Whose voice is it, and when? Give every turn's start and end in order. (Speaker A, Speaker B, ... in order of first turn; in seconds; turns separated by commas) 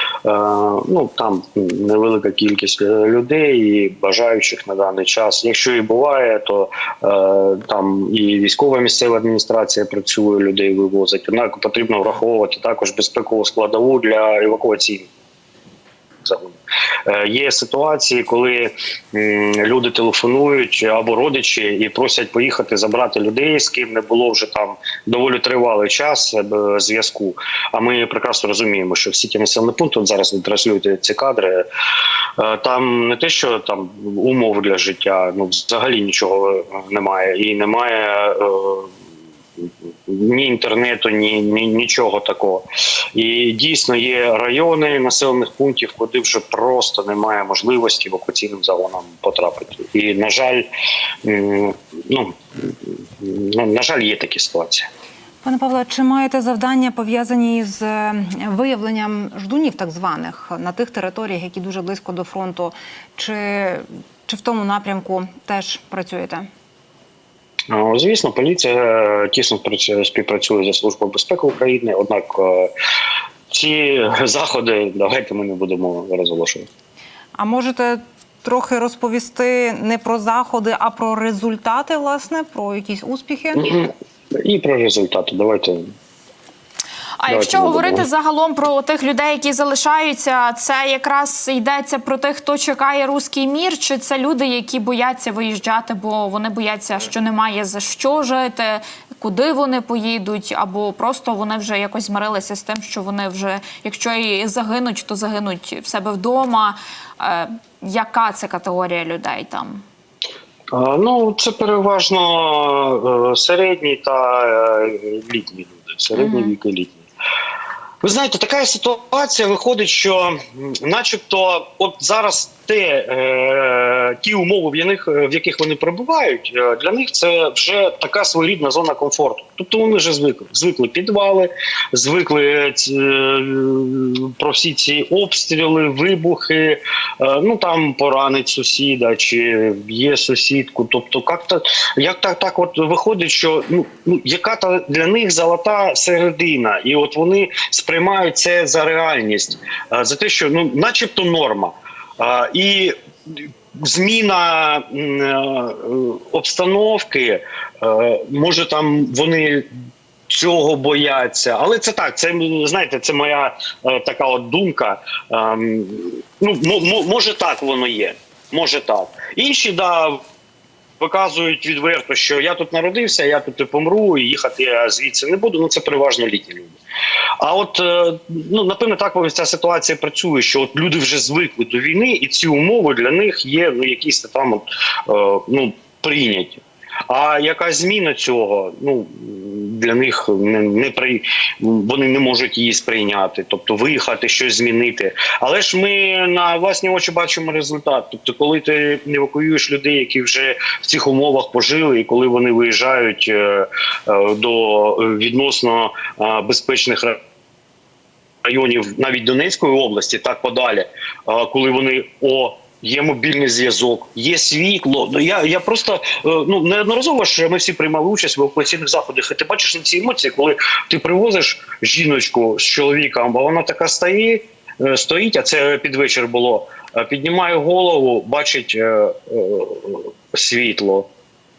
Speaker A: 0.2-15.1, Speaker A: 16.2-31.6, Speaker A: 32.4-38.9, Speaker A: 39.6-50.7, Speaker A: 51.2-54.9, Speaker B: 55.4-66.5, Speaker A: 67.7-72.7, Speaker A: 73.5-76.7, Speaker B: 77.4-83.6, Speaker A: 83.6-83.9, Speaker A: 84.4-85.8, Speaker C: 87.2-109.8, Speaker A: 87.3-88.1, Speaker A: 110.7-117.0, Speaker C: 116.2-116.5, Speaker A: 118.0-159.7, Speaker A: 160.3-170.2, Speaker A: 171.0-176.8, Speaker A: 177.4-207.2, Speaker A: 208.4-231.1